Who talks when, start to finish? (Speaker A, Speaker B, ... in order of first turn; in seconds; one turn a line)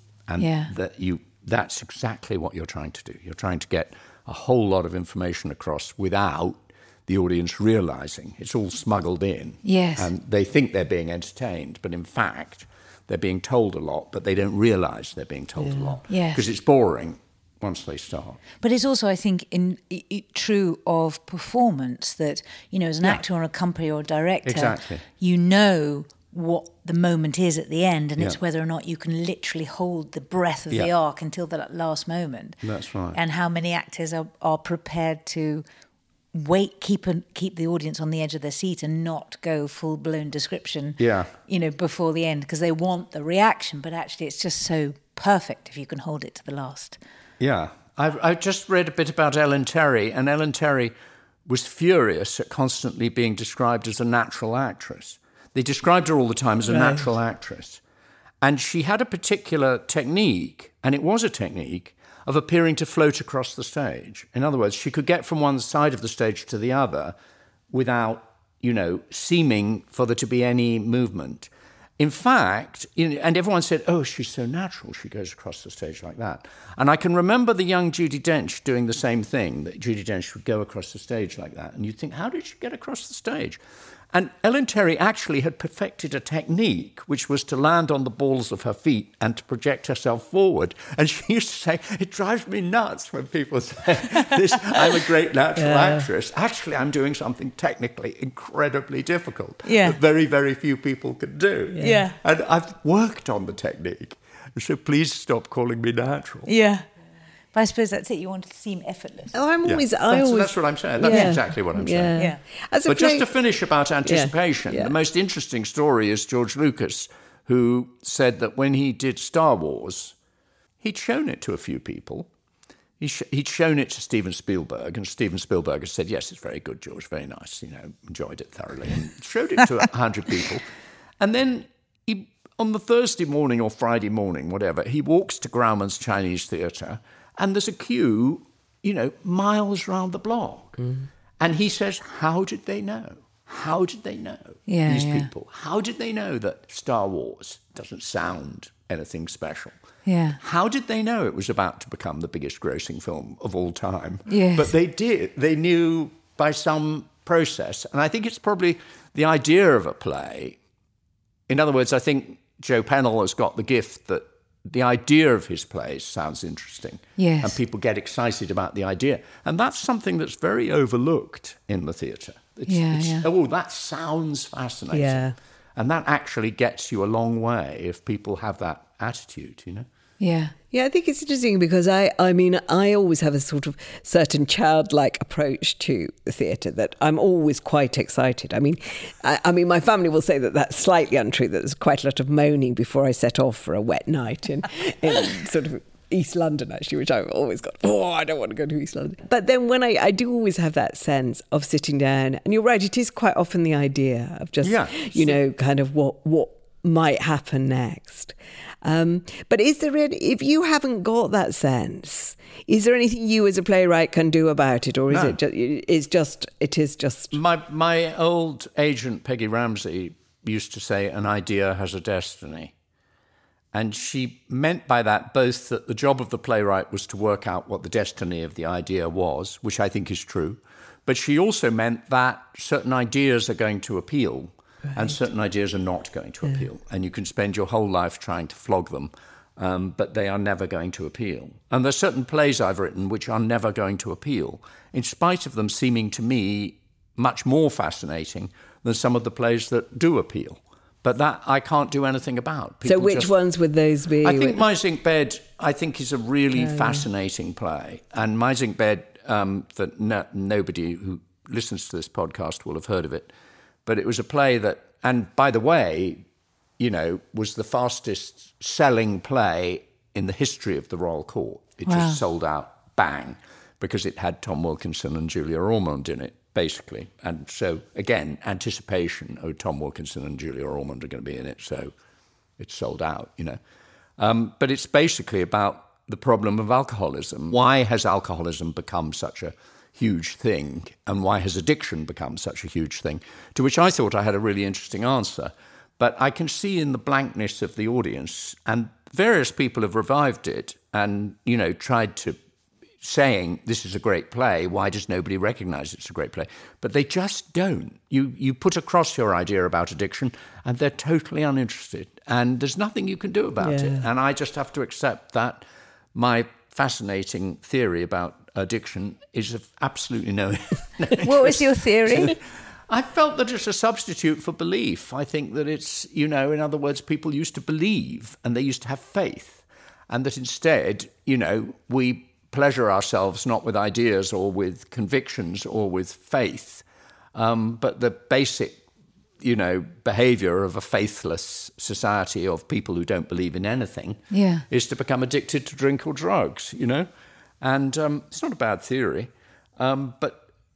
Speaker A: 0.3-18.4
Speaker B: 0.4-0.7
Speaker B: 9.6-10.1
Speaker C: 15.6-16.0
Speaker B: 16.1-16.4
Speaker B: 18.6-32.6
Speaker A: 24.4-25.0
Speaker A: 32.6-33.2
Speaker B: 33.1-35.6
Speaker B: 36.3-47.0
Speaker A: 41.0-41.3
Speaker A: 47.4-50.9
Speaker A: 51.5-57.8
Speaker C: 56.7-57.1
Speaker A: 58.4-67.2
Speaker A: 67.7-83.6
Speaker A: 84.1-106.5
Speaker C: 95.6-96.1
Speaker B: 99.7-100.0
Speaker C: 101.7-102.0
Speaker B: 101.8-102.2
Speaker B: 106.5-106.8
Speaker B: 107.5-109.3
Speaker C: 109.3-113.3
Speaker A: 109.6-112.2
Speaker B: 111.0-111.4
Speaker A: 112.9-120.2
Speaker C: 114.0-115.0
Speaker A: 120.8-122.3
Speaker A: 123.0-140.8
Speaker C: 140.8-141.1
Speaker A: 141.4-149.8
Speaker B: 144.7-145.3
Speaker B: 150.1-150.4
Speaker A: 150.4-160.6
Speaker B: 154.3-154.7
Speaker A: 161.5-179.9
Speaker B: 167.2-167.6
Speaker B: 172.7-173.3
Speaker C: 174.9-175.4
Speaker B: 180.2-180.6
Speaker C: 180.7-217.4
Speaker A: 204.6-205.4
Speaker A: 215.1-215.4
Speaker A: 217.3-222.7
Speaker A: 223.7-253.4
Speaker C: 252.8-254.6
Speaker A: 254.2-263.3
Speaker C: 256.6-257.1
Speaker A: 263.9-266.2
Speaker A: 266.8-281.9
Speaker B: 271.9-272.2
Speaker A: 282.6-283.6
Speaker A: 284.2-302.4
Speaker A: 303.0-315.6
Speaker C: 313.6-314.1
Speaker A: 316.1-322.4
Speaker B: 321.2-322.4
Speaker A: 322.9-338.8
Speaker A: 339.4-347.1
Speaker B: 344.3-344.6
Speaker A: 347.6-350.5